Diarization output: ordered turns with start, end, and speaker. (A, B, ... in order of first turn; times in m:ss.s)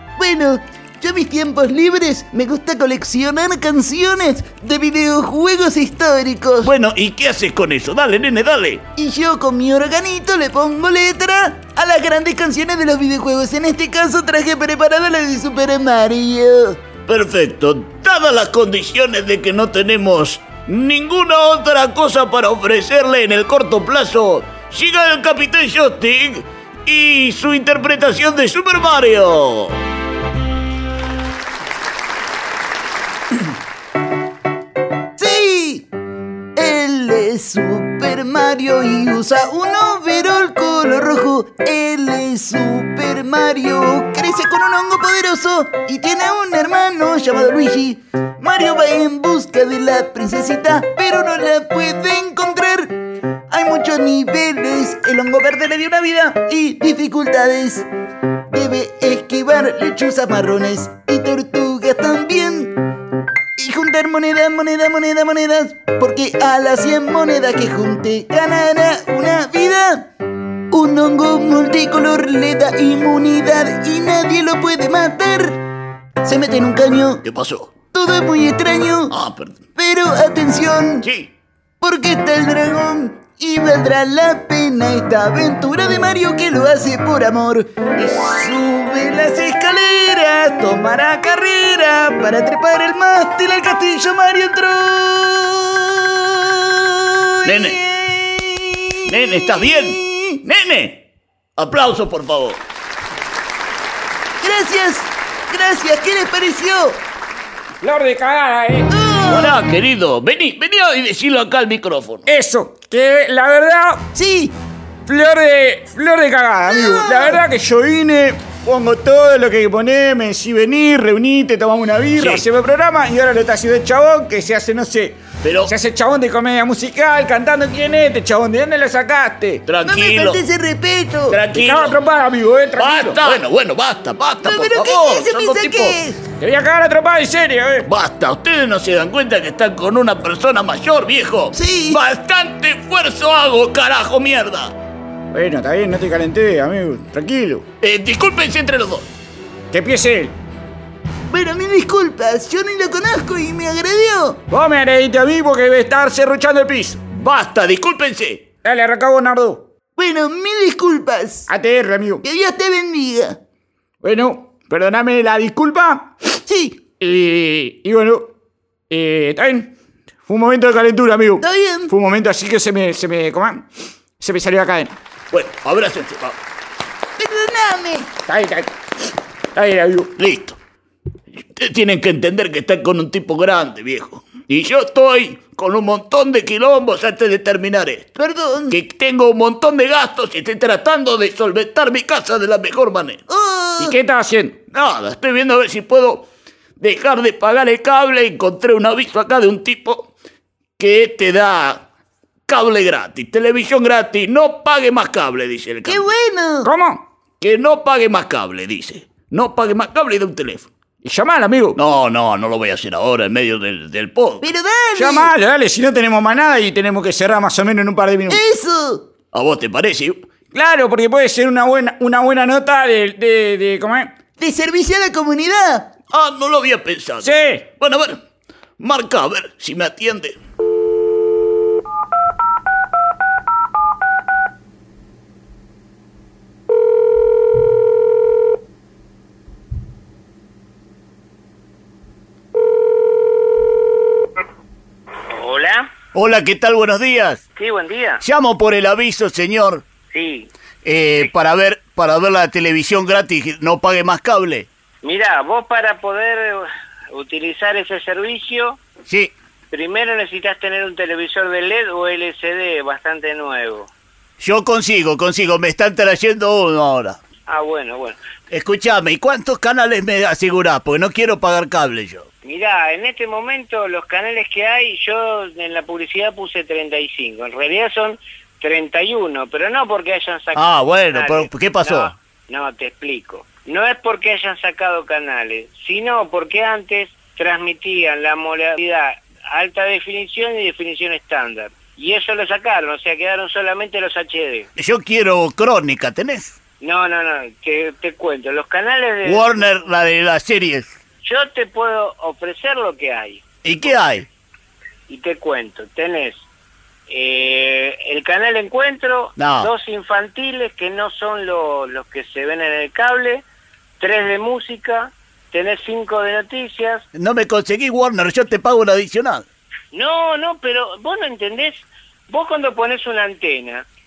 0:00.2-0:06.7 A
0:06.6-0:08.9 B
0:08.9-0:16.8 A
0:17.0-0:29.8 B
0:35.2-0:35.9 A
0:36.6-0:57.8 A
0:58.5-1:02.8 A
1:03.6-1:10.1 A
1:10.7-1:15.6 A
1:16.2-1:17.2 A
1:17.2-1:17.8 B
1:17.9-1:19.1 A
1:19.1-1:19.6 B
1:19.7-1:21.1 A
1:21.0-1:21.3 B
1:21.8-1:40.4 A
1:37.4-1:37.8 B
1:39.1-1:41.0 B
1:41.6-1:42.6 B
1:44.4-1:47.0 A
1:47.8-1:48.9 C
1:48.9-1:49.6 A
1:49.3-1:52.2 B
1:52.3-1:54.0 C
1:54.1-1:54.5 A
1:55.1-2:09.6 C
1:56.7-1:57.4 A
2:02.2-2:02.4 B
2:05.4-2:05.7 B
2:09.6-2:10.4 B
2:09.8-2:11.4 A
2:11.3-2:12.0 B
2:11.5-2:13.4 C
2:12.8-2:16.0 B
2:14.4-2:16.2 A
2:16.4-2:17.9 C
2:17.8-2:24.7 B
2:21.5-2:22.0 A
2:25.3-2:27.6 C
2:27.8-2:29.1 B
2:29.7-2:30.3 C
2:31.3-2:34.4 A
2:34.5-2:37.0 C
2:37.1-2:38.4 B
2:38.6-2:39.6 C
2:40.0-2:41.5 A
2:41.5-2:42.2 C
2:42.2-2:43.4 A
2:44.0-2:46.1 C
2:46.4-2:46.8 A
2:47.0-2:48.3 C
2:48.9-2:49.7 C
2:50.3-2:53.6 C
2:51.4-2:51.9 A
2:54.2-2:55.0 C
2:55.3-2:56.4 B
2:57.2-2:58.1 A
2:58.3-2:58.7 C
2:59.5-3:00.1 C
3:00.2-3:00.6 B
3:01.4-3:08.1 B
3:08.2-3:08.8 A
3:08.7-3:13.2 B
3:13.3-3:14.0 A
3:13.8-3:14.6 C
3:14.7-3:16.3 B
3:16.8-3:20.1 B
3:20.8-3:21.8 B
3:22.5-3:26.0 B
3:25.8-3:26.7 A
3:26.6-3:27.0 C
3:27.4-3:30.7 B
3:31.0-3:31.8 C
3:31.8-3:34.4 B
3:34.4-3:35.3 A
3:35.0-3:38.4 C
3:38.3-3:39.0 A
3:39.3-3:40.2 B
3:40.5-3:44.1 C
3:44.4-3:45.9 A
3:46.1-3:48.2 B
3:47.2-3:47.6 C
3:48.8-3:50.4 B
4:05.3-4:05.9 D
4:06.1-4:07.4 B
4:07.6-4:08.2 D
4:08.2-4:09.8 B
4:10.1-4:10.5 D
4:10.8-4:14.7 B
4:15.0-4:18.8 D
4:19.1-4:19.3 B
4:19.7-4:23.9 D
4:24.4-4:27.2 B
4:27.5-4:28.2 D
4:28.5-4:32.3 B
4:32.4-4:54.7 D
4:40.5-4:42.1 B
4:54.8-4:56.6 B
4:56.8-4:59.6 D
4:59.2-5:00.9 B
5:01.2-5:03.4 D
5:03.6-5:04.3 B
5:05.1-5:06.4 D
5:07.1-5:13.4 D
5:09.4-5:09.7 B
5:14.0-5:17.0 D
5:17.1-5:19.4 B
5:19.9-5:23.9 D